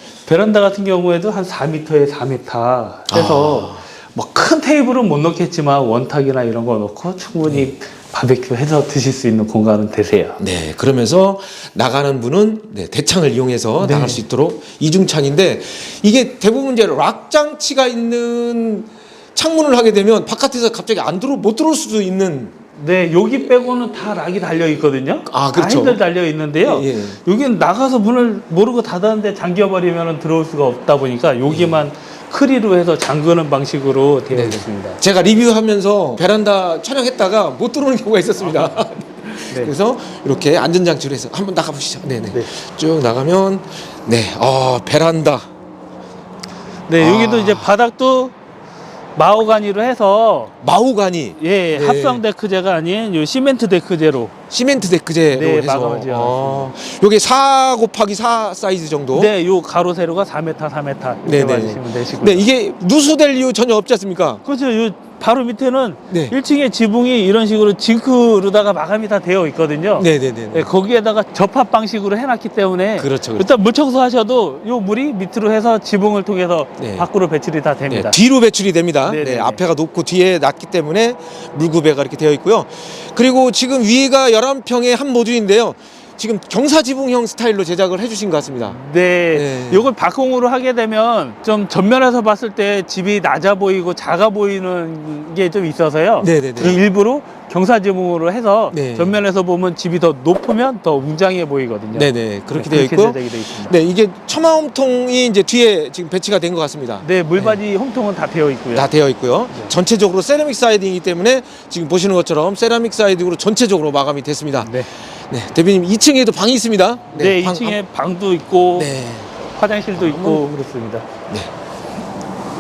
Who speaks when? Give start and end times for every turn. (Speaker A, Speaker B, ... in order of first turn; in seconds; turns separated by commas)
Speaker A: 0.3-10.4, Speaker B: 3.1-3.8, Speaker B: 7.4-7.7, Speaker B: 10.4-22.6, Speaker A: 13.8-14.2, Speaker A: 22.8-35.0, Speaker B: 25.3-26.0, Speaker B: 26.6-27.2, Speaker B: 31.5-31.8, Speaker B: 34.3-45.5, Speaker A: 38.4-38.7, Speaker A: 39.5-39.7, Speaker A: 46.9-48.4, Speaker B: 47.0-47.7, Speaker A: 49.2-50.5, Speaker B: 50.6-52.2, Speaker A: 51.4-54.3, Speaker B: 54.5-59.3, Speaker A: 55.3-56.7, Speaker A: 59.1-62.5, Speaker B: 61.3-64.4, Speaker A: 64.5-78.2, Speaker B: 66.1-66.3, Speaker B: 70.0-70.7, Speaker B: 73.0-73.5, Speaker B: 76.8-77.1, Speaker B: 77.9-88.8, Speaker A: 79.1-79.6, Speaker A: 88.7-103.8, Speaker B: 89.3-89.9, Speaker B: 96.2-96.8, Speaker B: 98.7-99.2, Speaker B: 101.9-107.6, Speaker A: 107.0-108.9, Speaker B: 108.7-114.8, Speaker B: 115.3-117.8, Speaker A: 117.2-121.1, Speaker B: 118.8-119.3, Speaker B: 120.0-120.4